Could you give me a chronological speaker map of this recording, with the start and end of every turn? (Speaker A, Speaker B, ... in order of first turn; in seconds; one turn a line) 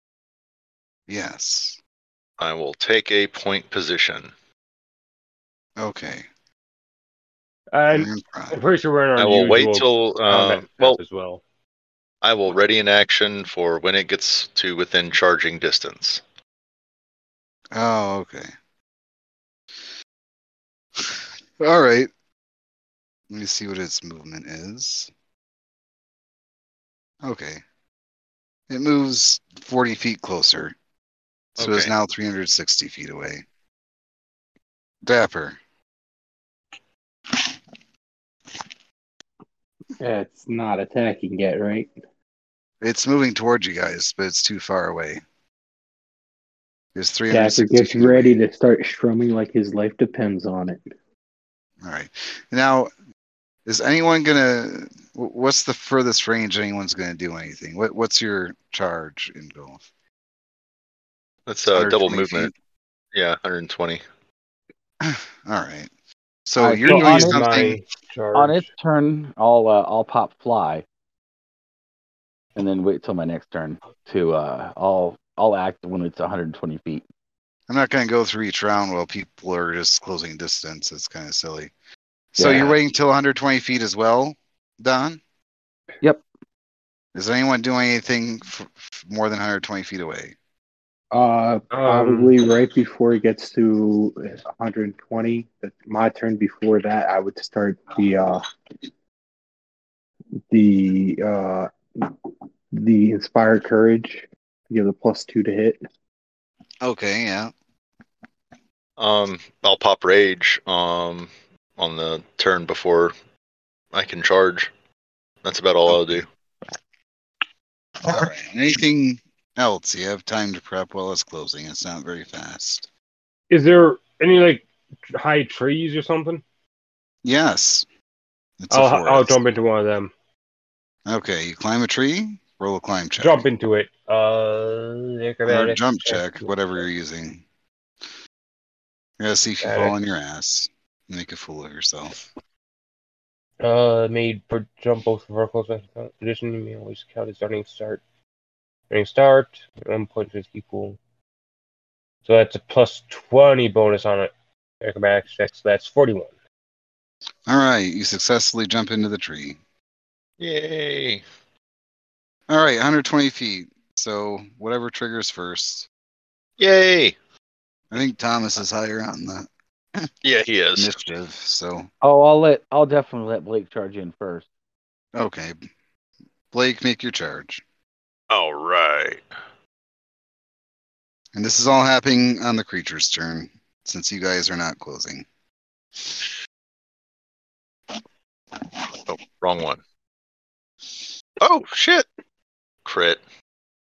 Speaker A: 1.1-1.8
Speaker B: 2.4-4.3
Speaker A: 5.8-6.3
Speaker C: 7.7-11.4
Speaker A: 7.9-8.6
Speaker B: 9.2-11.0
Speaker B: 12.2-16.2
Speaker A: 17.7-18.5
Speaker A: 21.0-22.1
Speaker A: 23.3-25.1
Speaker A: 27.2-27.6
Speaker A: 28.7-30.8
Speaker A: 31.6-33.4
Speaker B: 31.6-31.9
Speaker A: 35.0-35.6
Speaker D: 40.0-41.9
Speaker A: 42.8-45.2
Speaker A: 47.0-48.4
Speaker D: 47.3-50.9
Speaker A: 51.8-52.9
Speaker A: 53.7-59.8
Speaker B: 61.5-62.5
Speaker A: 61.7-62.5
Speaker B: 63.1-64.0
Speaker A: 65.0-65.9
Speaker A: 66.5-67.8
Speaker E: 66.6-67.6
Speaker C: 66.8-68.7
Speaker E: 68.3-70.8
Speaker E: 72.6-77.0
Speaker A: 77.7-81.7
Speaker A: 82.3-85.2
Speaker E: 82.4-82.8
Speaker A: 87.1-90.3
Speaker D: 91.1-98.4
Speaker C: 91.7-92.3
Speaker D: 100.5-102.2
Speaker D: 102.7-105.8
Speaker A: 106.8-107.5
Speaker B: 109.0-113.1
Speaker B: 113.9-114.7
Speaker B: 115.4-116.3
Speaker A: 115.9-116.2
Speaker A: 118.0-122.9
Speaker C: 123.5-126.4
Speaker A: 127.2-127.8
Speaker A: 128.6-129.4
Speaker C: 128.7-130.1
Speaker A: 131.1-133.5
Speaker C: 133.2-136.5
Speaker A: 135.4-137.4
Speaker A: 139.2-142.2
Speaker C: 139.6-140.0
Speaker C: 143.6-148.0
Speaker C: 148.9-151.0
Speaker C: 152.2-156.3
Speaker A: 157.5-159.6
Speaker B: 160.4-161.2
Speaker A: 162.5-165.9
Speaker B: 166.6-167.2
Speaker A: 167.9-170.1
Speaker B: 170.2-170.9
Speaker A: 170.8-171.9
Speaker E: 172.0-174.5
Speaker A: 175.1-175.6
Speaker A: 176.5-177.6
Speaker B: 178.3-179.2
Speaker A: 181.3-185.3
Speaker B: 189.1-189.8
Speaker B: 191.4-192.1
Speaker B: 192.8-193.2